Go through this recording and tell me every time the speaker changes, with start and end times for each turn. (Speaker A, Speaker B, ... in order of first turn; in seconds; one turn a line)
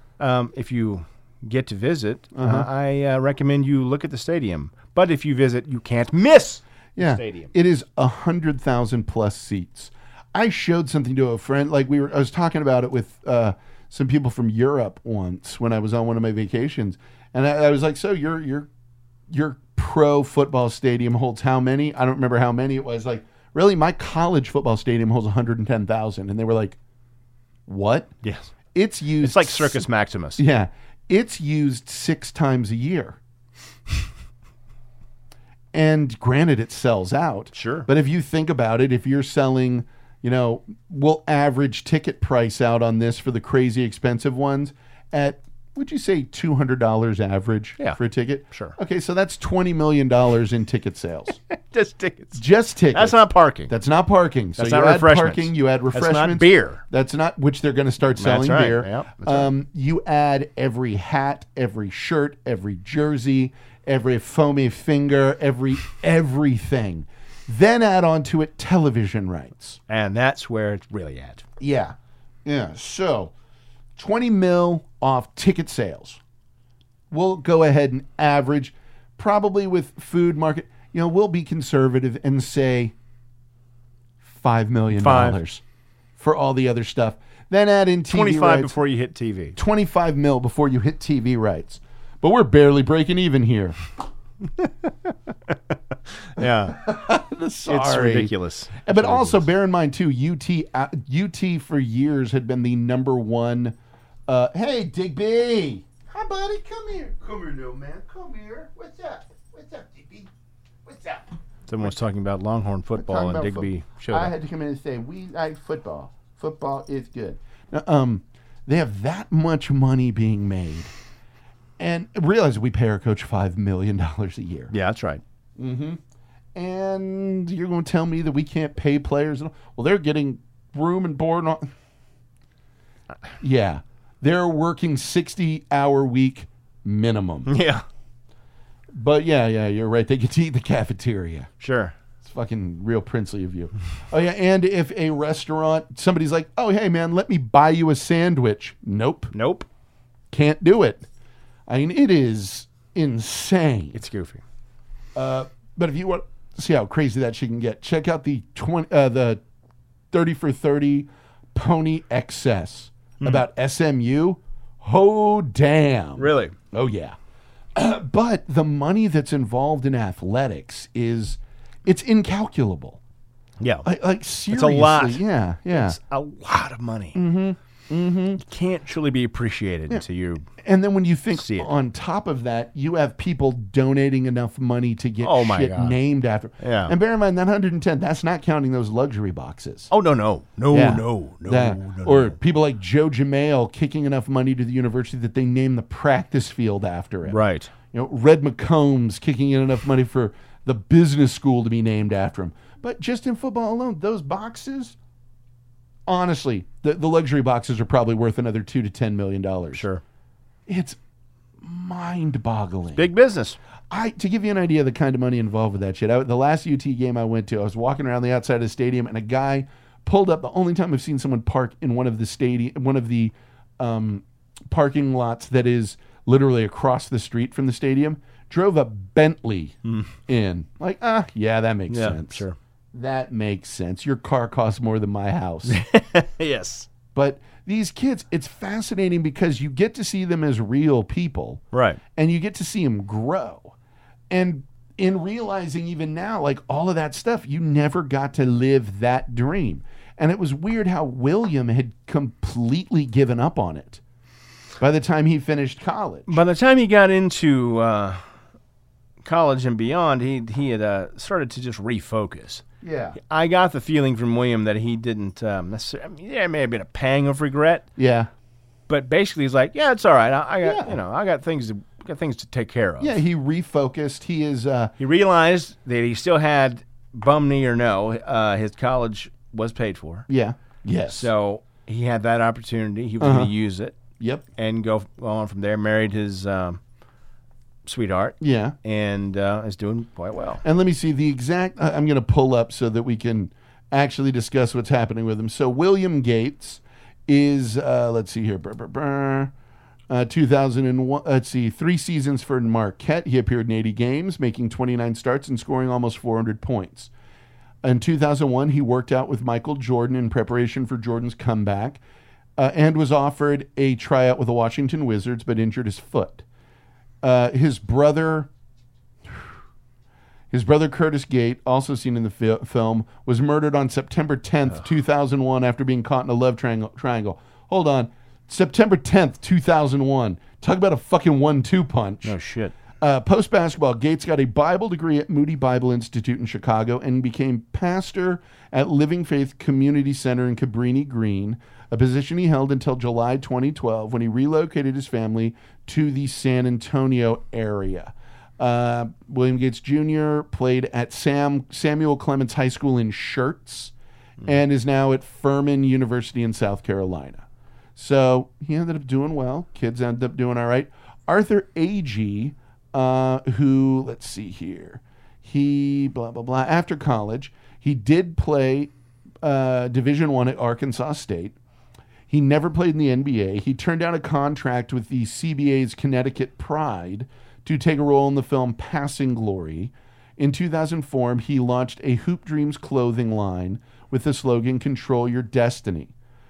Speaker A: 0.2-7.5
Speaker B: 2.3-2.7
Speaker B: 7.0-18.7
Speaker B: 19.3-26.8
Speaker B: 27.7-28.1
Speaker A: 28.2-28.5
Speaker B: 28.7-29.8
Speaker A: 29.2-30.4
Speaker B: 30.4-33.2
Speaker B: 35.7-51.4
Speaker A: 37.5-37.9
Speaker A: 51.4-52.4
Speaker B: 52.3-69.8
Speaker A: 52.9-53.7
Speaker A: 54.6-56.8
Speaker A: 58.2-59.5
Speaker A: 69.9-71.4
Speaker B: 71.6-73.3
Speaker B: 74.0-76.2
Speaker B: 77.1-82.9
Speaker B: 84.2-85.6
Speaker A: 84.9-85.4
Speaker B: 86.2-88.7
Speaker A: 88.1-89.5
Speaker B: 89.5-93.8
Speaker A: 95.5-95.7
Speaker A: 96.3-96.8
Speaker B: 96.7-98.3
Speaker A: 97.7-99.5
Speaker B: 98.8-103.7
Speaker B: 104.3-110.3
Speaker B: 110.8-111.3
Speaker A: 111.7-114.3
Speaker B: 112.9-120.9
Speaker B: 121.8-124.7
Speaker A: 124.7-125.2
Speaker B: 125.6-126.0
Speaker B: 126.5-131.7
Speaker B: 133.4-137.5
Speaker A: 137.4-137.8
Speaker B: 138.9-141.5
Speaker A: 141.6-141.9
Speaker B: 142.2-149.3
Speaker A: 149.3-149.7
Speaker B: 150.3-151.1
Speaker B: 151.7-154.0
Speaker A: 153.9-154.4
Speaker B: 155.1-159.4
Speaker B: 160.1-167.2
Speaker A: 166.2-166.5
Speaker B: 167.8-173.0
Speaker A: 173.6-173.9
Speaker B: 173.8-176.0
Speaker A: 174.5-177.2
Speaker B: 177.1-178.4
Speaker A: 178.4-180.5
Speaker B: 180.6-189.9
Speaker A: 181.3-181.7
Speaker A: 185.2-186.0
Speaker A: 186.6-186.9
Speaker A: 189.9-192.3
Speaker B: 190.7-197.4
Speaker A: 197.2-197.7
Speaker B: 197.9-204.9
Speaker B: 206.1-209.8
Speaker A: 209.7-210.0
Speaker B: 210.7-211.0
Speaker B: 211.6-213.1
Speaker A: 212.9-213.6
Speaker B: 213.9-235.8
Speaker A: 229.8-230.1
Speaker A: 231.9-232.6
Speaker A: 235.7-236.9
Speaker B: 237.1-241.6
Speaker A: 241.7-242.0
Speaker B: 242.1-243.7
Speaker B: 244.3-254.0
Speaker B: 254.8-256.4
Speaker A: 256.3-258.2
Speaker A: 259.2-262.6
Speaker B: 262.8-263.2
Speaker A: 263.2-267.8
Speaker B: 268.0-268.3
Speaker A: 268.9-273.2
Speaker B: 270.6-271.0
Speaker B: 273.0-274.9
Speaker A: 275.0-280.2
Speaker B: 280.3-281.3
Speaker A: 281.1-284.0
Speaker B: 283.2-283.5
Speaker A: 284.6-286.8
Speaker A: 287.9-290.6
Speaker B: 288.4-288.7
Speaker B: 290.6-299.5
Speaker B: 300.1-307.1
Speaker B: 307.8-312.0
Speaker B: 312.6-316.4
Speaker B: 317.2-318.5
Speaker B: 320.5-332.4
Speaker A: 332.2-332.7
Speaker B: 333.0-357.4
Speaker B: 357.9-371.6
Speaker B: 372.3-386.1